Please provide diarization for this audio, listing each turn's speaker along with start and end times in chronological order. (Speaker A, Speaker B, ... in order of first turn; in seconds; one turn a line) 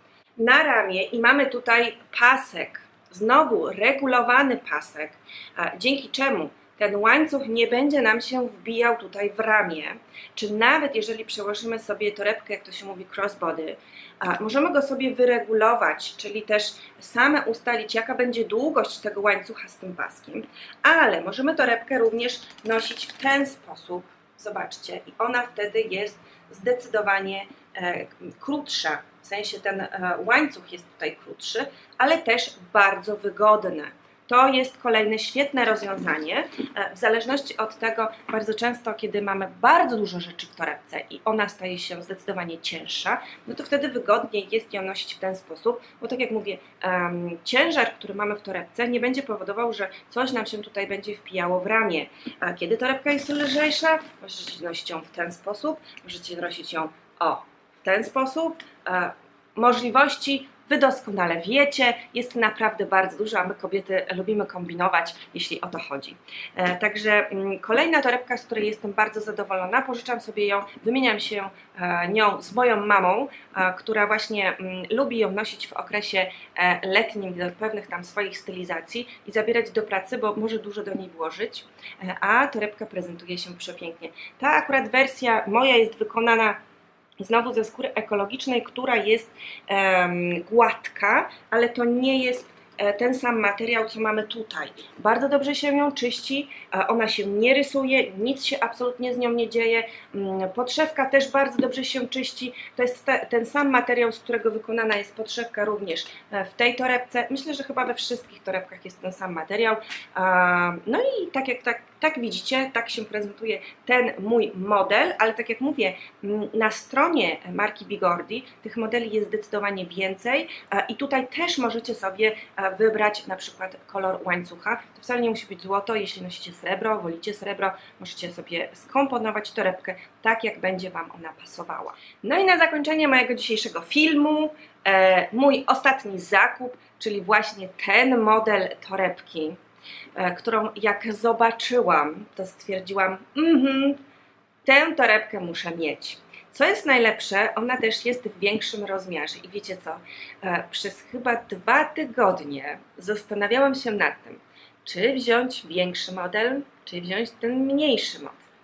Speaker A: 0.4-86.6
Speaker A: 87.2-139.6
Speaker A: 140.2-144.0
Speaker A: 144.7-158.4